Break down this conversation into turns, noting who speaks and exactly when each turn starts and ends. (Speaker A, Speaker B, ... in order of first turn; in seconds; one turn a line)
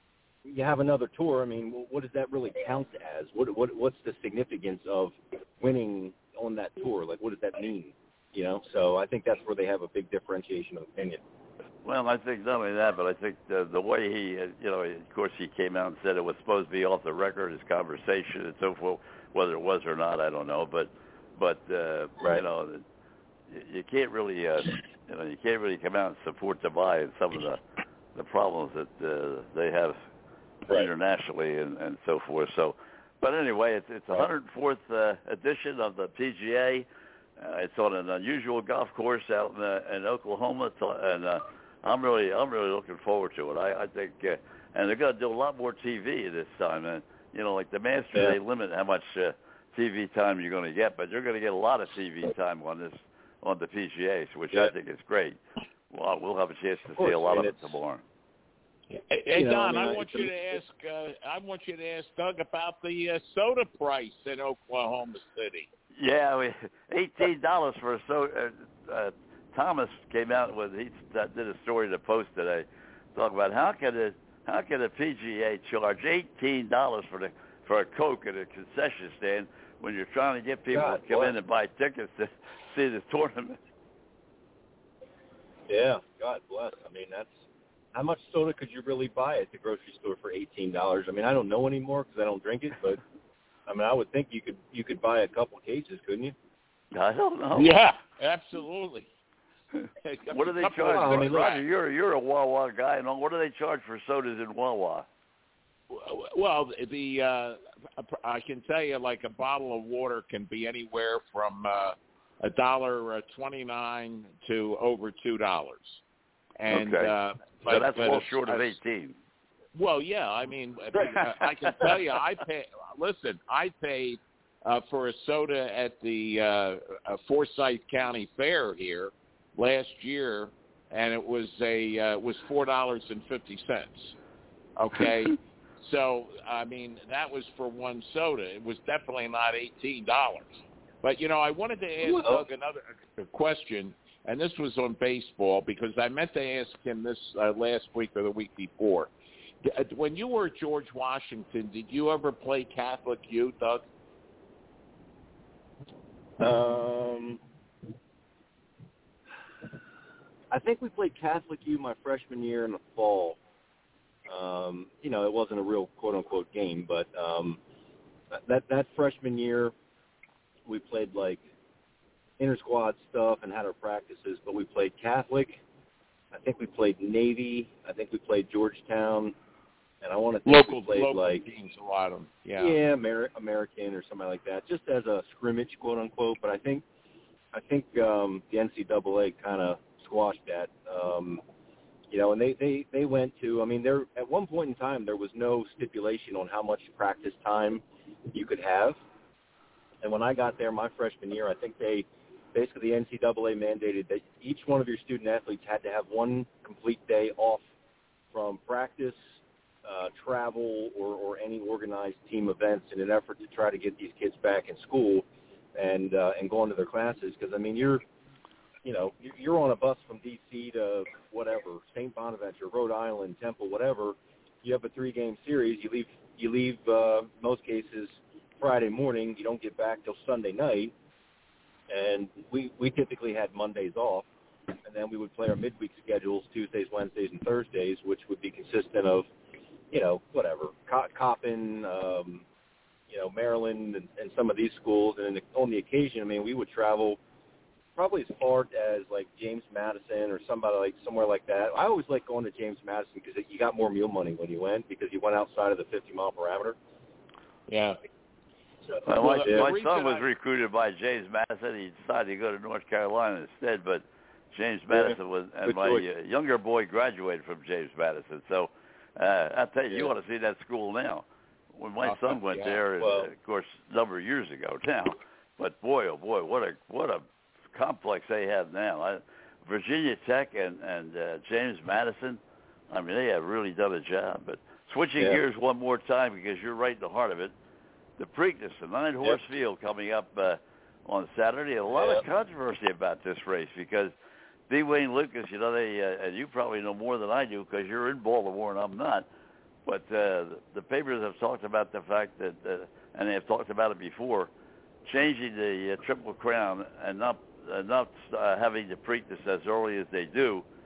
Speaker A: 0.4-11.2
Speaker B: 11.8-22.8
Speaker B: 23.5-27.6
Speaker B: 28.1-30.0
Speaker B: 30.7-36.9
Speaker B: 37.4-55.4
Speaker B: 55.9-58.0
Speaker A: 57.0-57.7
Speaker C: 58.9-65.7
Speaker A: 59.3-60.6
Speaker B: 66.0-83.6
Speaker A: 80.7-81.3
Speaker A: 85.7-87.3
Speaker A: 87.9-93.0
Speaker A: 93.7-96.3
Speaker B: 96.9-97.7
Speaker C: 97.5-99.1
Speaker C: 100.0-101.5
Speaker B: 100.3-105.0
Speaker A: 100.8-101.6
Speaker C: 105.9-116.0
Speaker C: 116.6-118.7
Speaker B: 116.7-119.2
Speaker C: 119.7-134.1
Speaker C: 134.8-149.1
Speaker A: 142.0-142.4
Speaker C: 149.6-153.8
Speaker A: 156.4-157.4
Speaker A: 160.5-163.4
Speaker A: 164.3-167.6
Speaker A: 168.3-169.7
Speaker A: 170.7-171.4
Speaker A: 172.4-175.6
Speaker A: 176.3-179.3
Speaker A: 180.0-181.4
Speaker C: 180.4-182.8
Speaker A: 182.6-186.8
Speaker A: 187.5-191.4
Speaker A: 192.1-199.0
Speaker A: 200.0-207.6
Speaker A: 208.3-209.2
Speaker A: 209.8-218.0
Speaker A: 218.8-230.9
Speaker A: 231.9-234.3
Speaker A: 234.8-239.3
Speaker A: 239.9-242.4
Speaker A: 243.1-247.2
Speaker A: 247.9-256.8
Speaker C: 257.7-258.0
Speaker A: 258.9-259.7
Speaker B: 259.1-287.5
Speaker C: 259.1-260.2
Speaker A: 264.9-266.1
Speaker C: 272.0-272.8
Speaker A: 273.0-273.3
Speaker B: 288.2-294.1
Speaker A: 291.9-292.2
Speaker B: 294.7-299.3
Speaker B: 299.9-304.5
Speaker B: 305.1-310.6